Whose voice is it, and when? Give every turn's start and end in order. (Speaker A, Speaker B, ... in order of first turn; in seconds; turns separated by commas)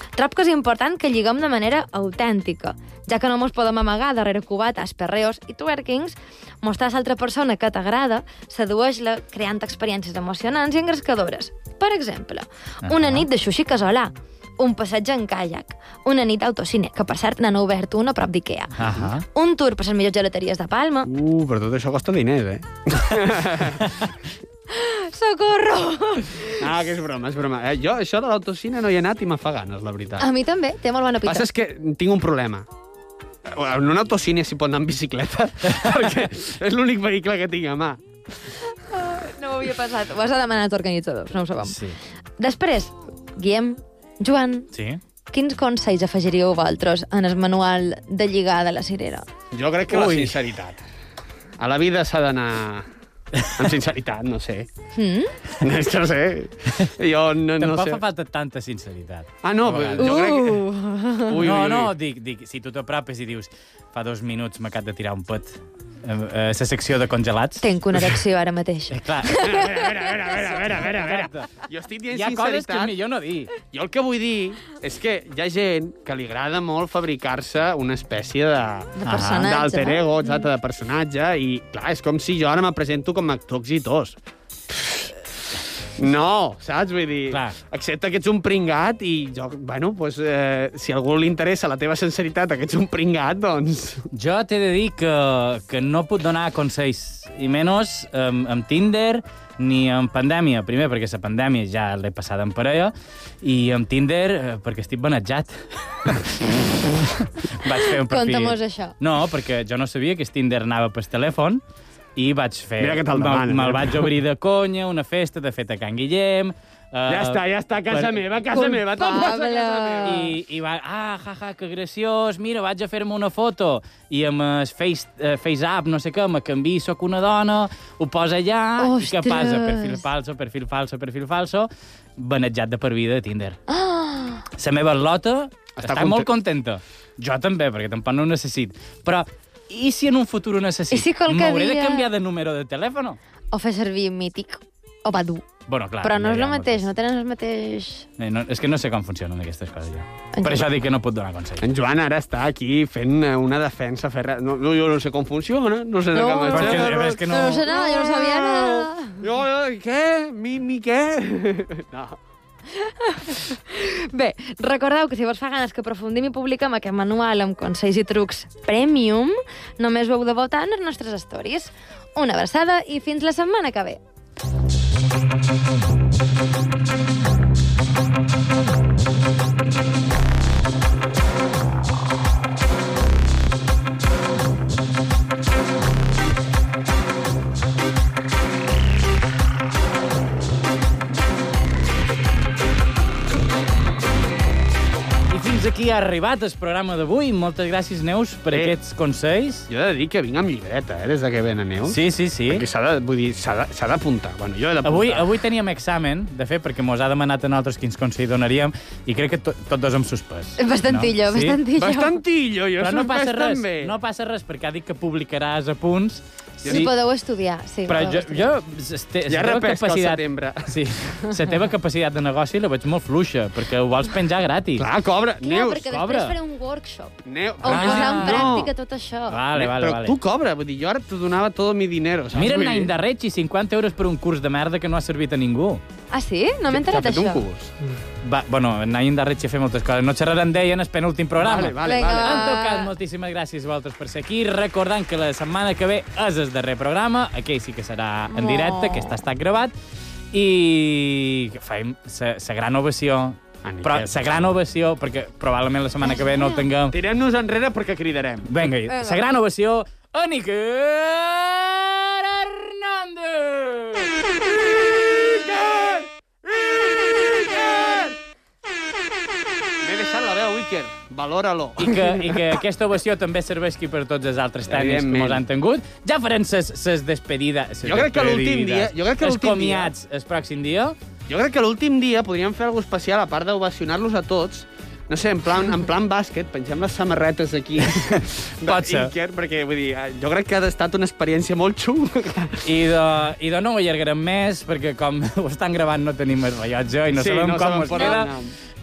Speaker A: 0.2-21.1, Speaker B: 12.8-13.3, Speaker B: 18.8-19.2, Speaker C: 21.1-23.9, Speaker A: 24.7-26.6, Speaker C: 26.5-30.3, Speaker A: 30.2-31.5, Speaker C: 31.3-32.7, Speaker C: 33.5-38.0, Speaker A: 38.8-41.8, Speaker B: 41.6-42.0, Speaker A: 42.4-44.7, Speaker B: 44.7-45.0, Speaker A: 45.3-49.3, Speaker C: 49.5-50.9, Speaker B: 49.9-50.4, Speaker C: 51.6-52.9, Speaker C: 53.5-54.7, Speaker A: 55.0-55.3, Speaker C: 55.6-58.0, Speaker B: 57.6-60.3, Speaker C: 59.4-60.6, Speaker A: 60.0-61.3, Speaker C: 61.2-61.9, Speaker B: 61.4-67.7, Speaker A: 67.6-69.6, Speaker B: 68.9-69.5, Speaker C: 69.3-72.9, Speaker B: 70.6-71.5, Speaker B: 72.1-73.5, Speaker C: 73.6-84.2, Speaker A: 79.0-80.5, Speaker B: 79.1-79.5, Speaker C: 84.7-85.1, Speaker C: 86.0-94.1, Speaker B: 87.3-87.6, Speaker B: 94.1-111.6, Speaker A: 107.8-109.0, Speaker B: 112.2-118.7, Speaker C: 112.8-114.1, Speaker C: 117.1-120.2, Speaker A: 118.6-120.3, Speaker B: 120.0-133.6, Speaker A: 128.8-130.0, Speaker A: 133.7-134.5, Speaker B: 134.6-143.2, Speaker C: 135.7-136.3, Speaker A: 140.9-142.1, Speaker A: 143.5-145.5, Speaker B: 145.7-146.9, Speaker A: 146.0-148.1, Speaker B: 148.2-151.7, Speaker A: 150.3-150.7, Speaker C: 151.6-162.2, Speaker A: 156.1-159.2, Speaker B: 156.5-157.7, Speaker A: 162.7-174.0, Speaker B: 195.3-199.7, Speaker C: 199.7-205.3, Speaker B: 201.9-202.6, Speaker B: 204.8-211.6, Speaker A: 210.6-212.2, Speaker C: 211.8-213.9, Speaker B: 212.8-216.9, Speaker C: 216.6-216.9, Speaker A: 216.7-218.5, Speaker B: 217.8-224.9, Speaker C: 219.3-220.8, Speaker C: 224.8-225.9, Speaker A: 225.4-229.4, Speaker B: 225.8-226.4, Speaker C: 227.3-228.7, Speaker B: 227.7-228.7, Speaker B: 229.3-230.2, Speaker C: 229.6-232.9, Speaker B: 232.3-235.8, Speaker A: 236.1-237.4, Speaker C: 236.7-237.7, Speaker B: 238.2-249.7, Speaker C: 241.4-242.6, Speaker A: 241.8-242.9, Speaker A: 248.3-249.2, Speaker B: 250.3-257.0, Speaker C: 253.6-254.2, Speaker A: 256.1-256.6, Speaker C: 256.9-258.7, Speaker B: 258.4-264.1, Speaker A: 258.9-259.2, Speaker C: 264.9-268.2, Speaker C: 269.8-272.6, Speaker B: 271.8-281.0, Speaker C: 274.7-275.4, Speaker C: 277.8-279.9, Speaker C: 281.3-292.6, Speaker B: 287.8-289.1, Speaker B: 292.6-298.3, Speaker C: 297.1-298.5